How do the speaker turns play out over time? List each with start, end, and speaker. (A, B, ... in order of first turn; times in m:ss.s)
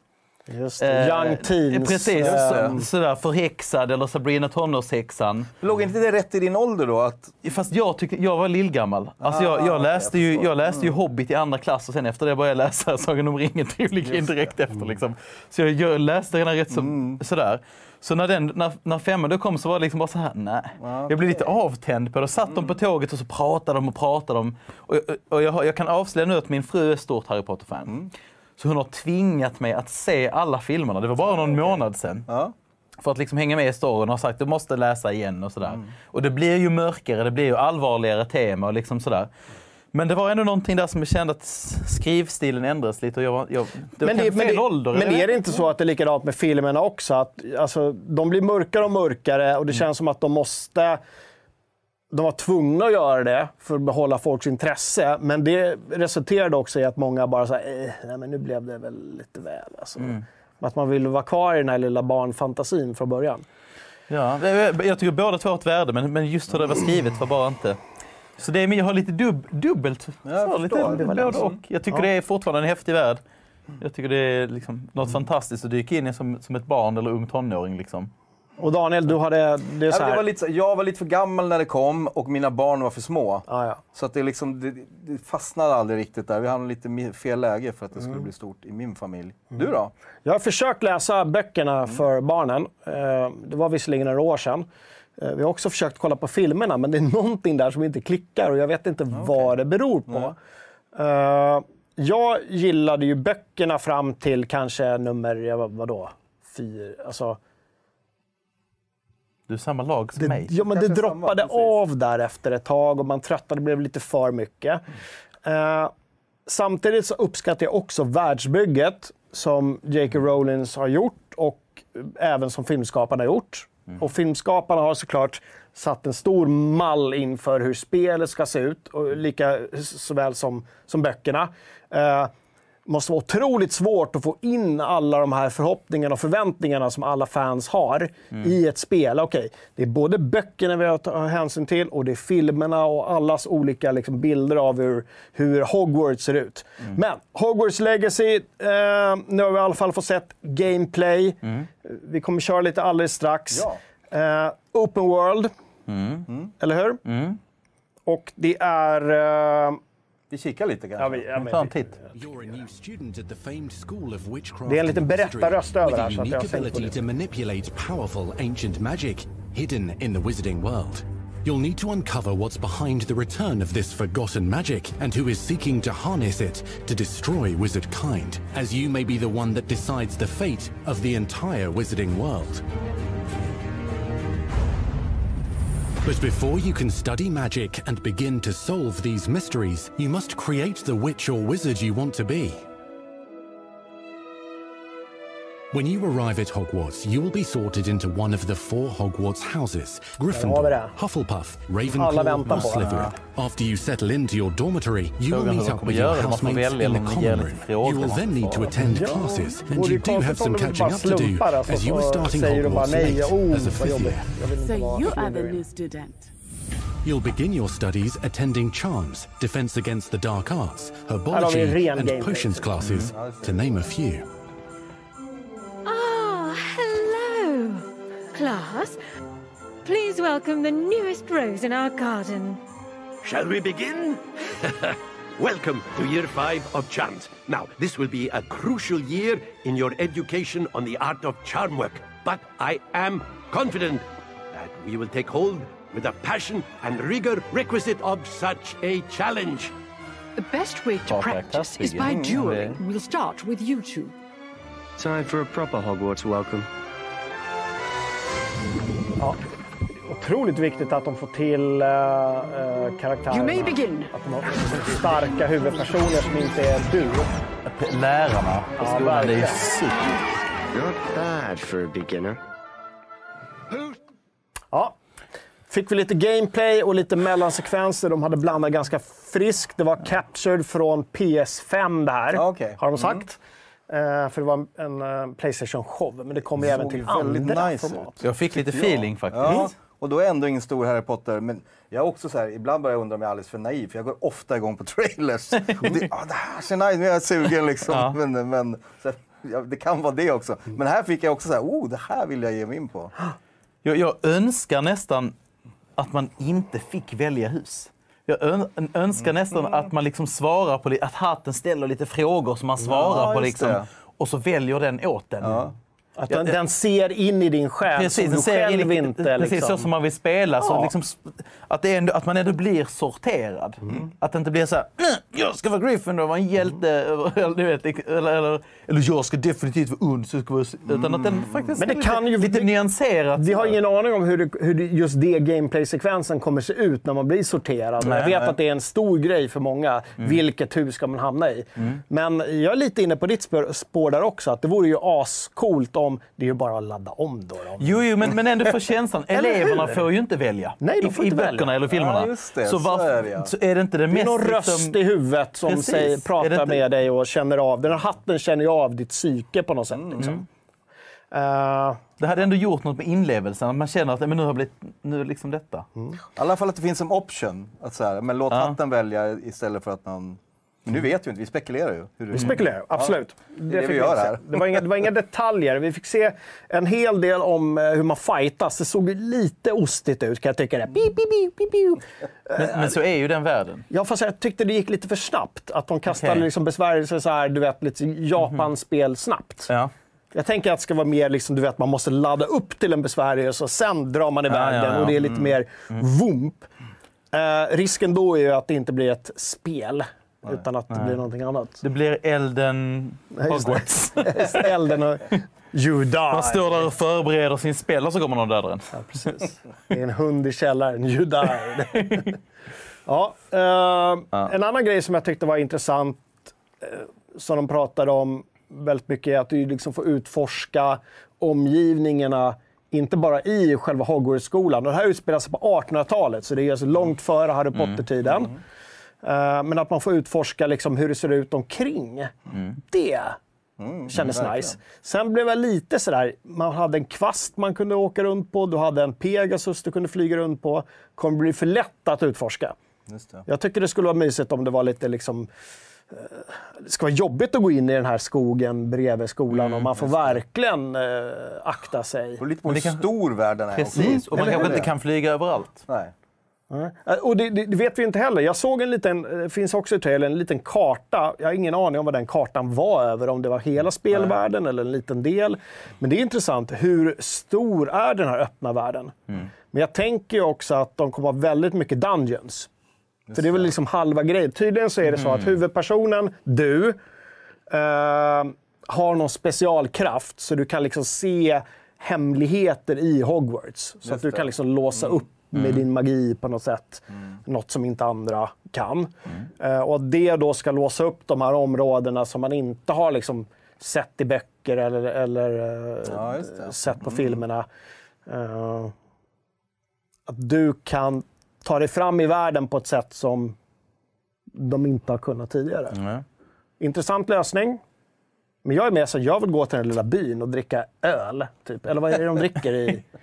0:00.5-0:02.9 A
0:00.8-0:05.5 B
0:02.2-0:02.8 C
0:05.6-0:07.4 C
0:07.4-0:28.0 B
0:09.2-0:10.9 C
0:14.0-0:14.5 C
0:16.7-0:17.2 C
0:20.8-0:21.6 C
0:22.5-0:22.8 C
0:28.6-0:32.3 B
0:31.3-0:32.5 C
0:33.0-0:39.3 B
0:39.9-0:45.3 B
0:44.0-0:51.0 A
0:52.1-1:03.4 A
1:04.1-1:07.8 B
1:08.4-1:13.2 B
1:10.2-1:11.6 C
1:10.8-1:12.1 A
1:13.8-1:18.1 B
1:18.6-1:20.2 A
1:19.9-1:29.9 C
1:23.5-1:23.8 A
1:30.2-1:34.7 A
1:35.2-1:40.4 A
1:39.1-1:39.5 C
1:40.1-1:40.4 C
1:41.0-1:47.4 A
1:49.5-1:50.5 B
1:50.2-1:54.8 A
1:50.6-1:51.8 C
1:55.4-1:55.9 A
1:56.5-2:12.3 A
2:12.9-2:35.5 A
2:33.5-2:33.8 C
2:35.9-2:36.3 B
2:36.6-2:37.0 A
2:37.0-2:37.4 B
2:38.1-2:39.8 A
2:40.3-2:41.3 C
2:41.0-2:42.0 A
2:41.4-2:42.0 B
2:42.1-3:02.6 D
2:44.7-2:47.0 A
3:06.0-3:12.6 D
3:15.7-3:34.3 D
3:20.3-3:21.0 A
3:21.9-3:23.0 A
3:22.5-3:23.2 B
3:25.3-3:28.7 B
3:28.8-3:35.6 A
3:34.6-3:36.3 E
3:37.0-3:44.3 D
3:41.3-3:42.7 A
3:42.8-3:43.1 B
3:42.9-3:43.9 C
3:45.9-3:49.0 F
3:49.8-3:52.6 F
3:53.2-4:09.7 G
4:10.4-4:14.2 E
4:11.1-4:12.8 B
4:12.0-4:12.3 C
4:15.0-4:16.7 H
4:20.0-4:27.3 A
4:23.3-4:24.1 E
4:27.6-4:30.3 B
4:28.8-4:29.6 A
4:30.7-4:32.4 H
4:35.7-4:48.2 A
4:42.3-4:43.2 C
4:46.6-5:03.1 C
4:48.2-4:49.7 B
4:55.6-4:56.0 B
4:57.9-4:58.2 B
5:03.8-5:05.4 B
5:06.0-5:15.6 B
5:09.2-5:09.9 C
5:12.8-5:13.9 C
5:15.4-5:15.8 C
5:16.2-5:19.9 A
5:16.3-5:16.6 B
5:17.9-5:33.8 B
5:20.6-5:20.9 A
5:30.9-5:31.8 C
5:31.8-5:32.7 A
5:33.4-5:48.7 A
5:38.0-5:38.4 B
5:38.3-5:38.5 C
5:47.8-5:55.0 B
5:49.3-5:50.0 A
5:50.8-5:51.7 A
5:51.9-5:53.5 C
5:54.1-6:00.4 A
5:55.6-5:56.8 B
5:59.9-6:00.3 C
6:01.3-6:02.0 A
6:02.2-6:05.9 B
6:06.4-6:14.9 C
6:08.5-6:08.8 B
6:12.3-6:23.0 A
6:22.6-6:23.8 B
6:23.9-6:29.7 A
6:26.1-6:26.5 B
6:30.3-6:36.7 A
6:34.5-6:35.2 B
6:37.3-6:41.8 A
6:40.9-6:41.2 B
6:41.8-6:44.7 B
6:43.4-6:46.9 A
6:46.3-6:49.2 B
6:48.9-6:52.4 A
6:52.0-6:52.3 B
6:53.1-7:08.6 A
7:07.8-7:08.0 B
7:09.2-7:12.4 A
7:12.9-7:13.4 A
7:13.8-7:14.8 C
7:14.1-7:22.8 A
7:23.1-7:23.4 C
7:23.5-7:25.5 A
7:26.1-7:32.4 A
7:29.6-7:29.9 B
7:30.0-7:30.4 C
7:32.4-7:34.9 C
7:32.7-7:33.1 B
7:33.7-7:35.8 B
7:34.0-7:34.8 A
7:35.9-7:36.1 C
7:36.7-7:52.7 A
7:53.3-7:53.7 C
7:53.3-7:57.0 A
7:55.1-7:55.6 B
7:57.7-8:17.7 A
8:04.0-8:05.2 C
8:05.5-8:05.8 B
8:16.0-8:17.4 C
8:18.3-8:18.9 A
8:20.3-8:23.6 A
8:24.6-8:26.0 A
8:25.9-8:26.2 B
8:26.8-8:27.8 A
8:28.6-8:33.0 A